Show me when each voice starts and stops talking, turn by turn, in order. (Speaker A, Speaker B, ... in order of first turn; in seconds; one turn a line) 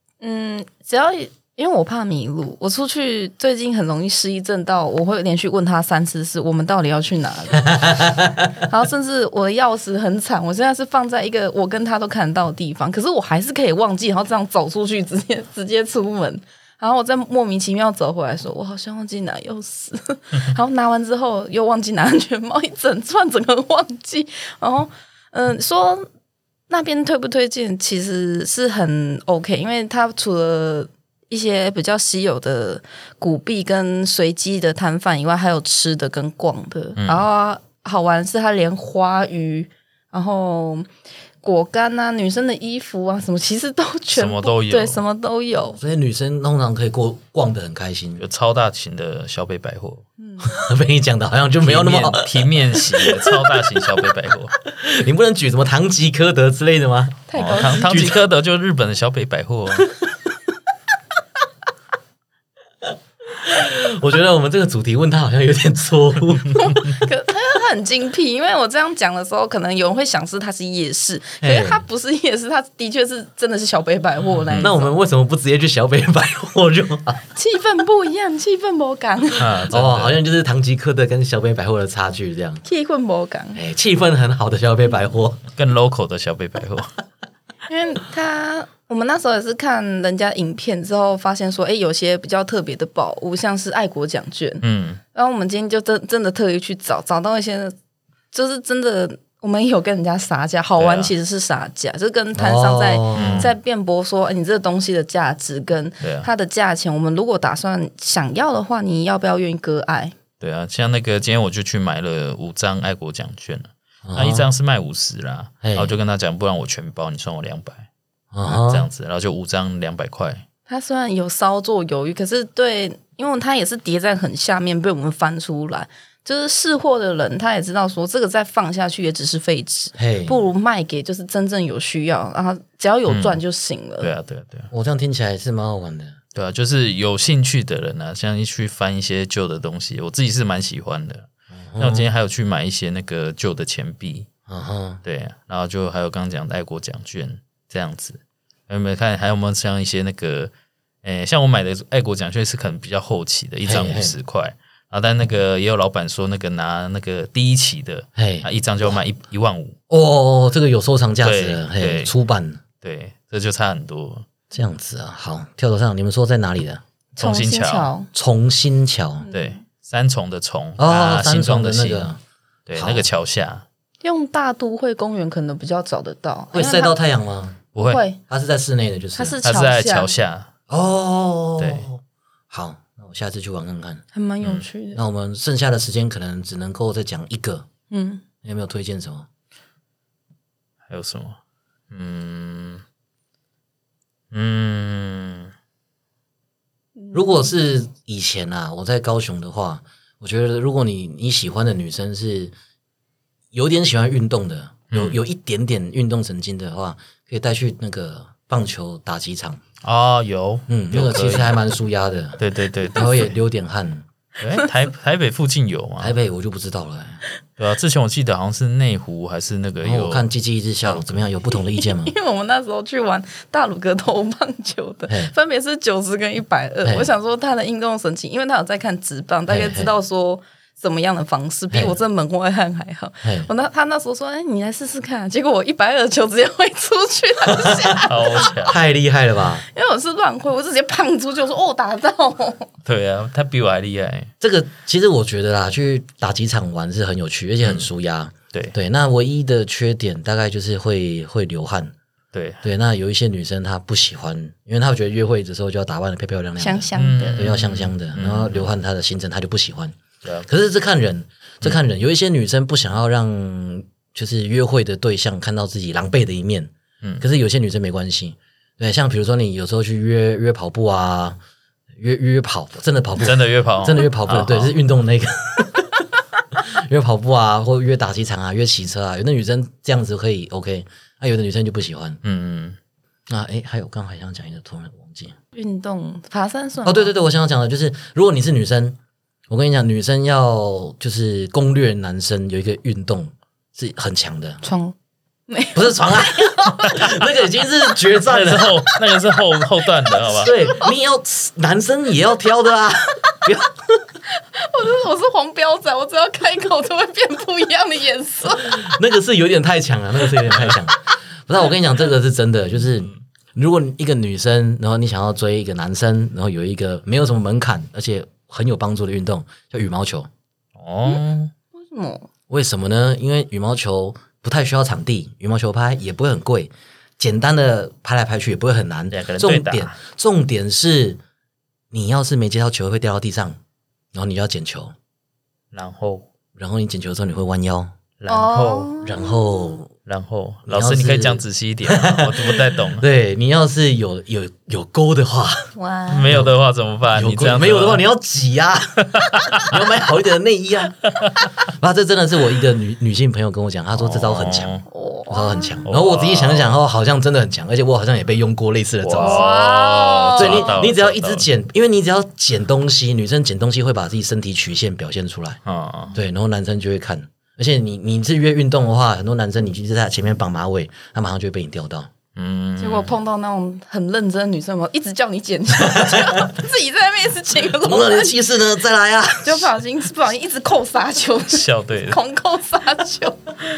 Speaker A: 0.2-26.1
Speaker B: 7.6-8.5
Speaker A: 26.7-40.9
Speaker C: 37.0-37.2
Speaker A: 41.4-45.8
Speaker C: 44.1-45.0
Speaker B: 45.8-48.2
Speaker C: 48.2-50.0
Speaker A: 50.2-50.6
Speaker B: 50.4-53.8
Speaker C: 51.6-54.6
Speaker B: 54.6-58.2
Speaker A: 57.3-58.1
Speaker C: 57.3-59.9
Speaker B: 63.3-67.0
Speaker A: 66.5-74.9
Speaker B: 71.4-71.8
Speaker C: 74.4-74.7
Speaker B: 74.5-77.2
Speaker A: 77.3-79.6
Speaker C: 79.3-80.2
Speaker B: 79.7-82.6
Speaker A: 82.6-83.6
Speaker B: 83.5-85.4
Speaker C: 85.5-86.9
Speaker A: 87.7-97.7
Speaker C: 94.6-95.0
Speaker A: 98.3-110.1
Speaker C: 100.8-101.1
Speaker B: 102.3-103.5
Speaker C: 103.1-103.5
Speaker C: 106.0-106.3
Speaker C: 110.4-117.9
Speaker B: 114.0-114.5
Speaker B: 115.6-115.9
Speaker B: 118.3-118.9
Speaker C: 118.5-120.4
Speaker A: 120.7-134.1
Speaker B: 129.9-130.4
Speaker C: 133.1-133.4
Speaker C: 134.0-134.7
Speaker B: 134.7-136.2
Speaker C: 136.3-144.3
Speaker B: 141.6-142.1
Speaker B: 144.5-145.0
Speaker C: 145.0-150.5
Speaker C: 151.0-159.8
Speaker B: 153.6-154.1
Speaker B: 158.2-159.0
Speaker B: 159.9-162.6
Speaker C: 161.2-162.1
Speaker C: 162.8-164.3
Speaker B: 164.5-166.8
Speaker A: 167.2-168.1
Speaker C: 167.2-167.9
Speaker B: 168.1-169.3
Speaker A: 169.2-169.6
Speaker C: 169.3-172.1
Speaker B: 170.8-172.2
Speaker C: 172.7-173.6
Speaker B: 172.8-173.1
Speaker A: 174.0-176.9
Speaker B: 176.5-177.6
Speaker C: 177.7-178.0
Speaker A: 177.8-178.2
Speaker B: 178.3-179.4
Speaker A: 179.1-180.1
Speaker C: 179.4-180.5
Speaker B: 180.7-184.0
Speaker C: 181.6-181.8
Speaker A: 184.1-185.0
Speaker B: 184.9-187.7
Speaker A: 187.9-188.2
Speaker B: 188.4-189.3
Speaker C: 190.9-191.4
Speaker C: 191.9-192.8
Speaker C: 194.3-195.5
Speaker A: 197.0-197.4
Speaker B: 197.1-202.5
Speaker B: 203.5-209.6
Speaker C: 204.9-205.2
Speaker C: 209.8-211.6
Speaker B: 210.7-214.0
Speaker C: 212.4-213.3
Speaker C: 214.4-216.1
Speaker B: 216.0-217.2
Speaker C: 217.6-220.2
Speaker B: 219.8-222.1
Speaker C: 220.8-221.2
Speaker A: 221.7-238.7
Speaker B: 226.8-227.1
Speaker B: 229.5-229.9
Speaker B: 233.2-233.5
Speaker B: 237.4-239.6
Speaker C: 238.1-238.8
Speaker A: 239.7-242.7
Speaker C: 242.8-244.3
Speaker B: 244.4-251.9
Speaker C: 247.6-247.9
Speaker C: 252.3-252.7
Speaker B: 252.6-271.4
Speaker A: 256.6-257.5
Speaker C: 256.9-258.7
Speaker B: 272.0-282.2
Speaker C: 273.2-274.8
Speaker C: 282.2-282.8
Speaker B: 283.3-285.4
Speaker A: 285.5-287.1
Speaker B: 286.8-289.0
Speaker B: 289.5-294.6
Speaker A: 294.6-294.9
Speaker A: 295.5-297.2
Speaker B: 295.7-298.8
Speaker C: 298.1-300.5
Speaker A: 298.9-299.1
Speaker B: 300.2-304.0
Speaker A: 300.6-300.9
Speaker A: 304.3-308.9
Speaker B: 308.6-320.3
Speaker C: 320.8-321.5
Speaker A: 321.8-322.3
Speaker B: 322.5-331.2
Speaker C: 329.1-329.9
Speaker B: 331.9-333.6
Speaker B: 334.1-334.9
Speaker C: 335.7-336.3
Speaker B: 336.6-337.9
Speaker C: 338.2-338.9
Speaker A: 338.3-339.8
Speaker B: 339.0-339.9
Speaker C: 340.0-343.1
Speaker B: 340.7-345.7
Speaker A: 345.7-346.4
Speaker C: 346.1-348.0
Speaker B: 346.3-346.5
Speaker B: 347.1-359.5
Speaker C: 349.1-349.7
Speaker C: 353.9-354.8
Speaker A: 354.9-355.8
Speaker C: 355.9-356.8
Speaker C: 359.0-361.5
Speaker A: 359.2-360.8
Speaker B: 360.4-365.6
Speaker C: 365.6-366.1
Speaker B: 366.1-372.1
Speaker C: 372.4-373.2
Speaker A: 372.8-378.4
Speaker B: 375.9-376.5
Speaker B: 377.8-379.8
Speaker A: 379.4-383.4
Speaker C: 381.5-382.2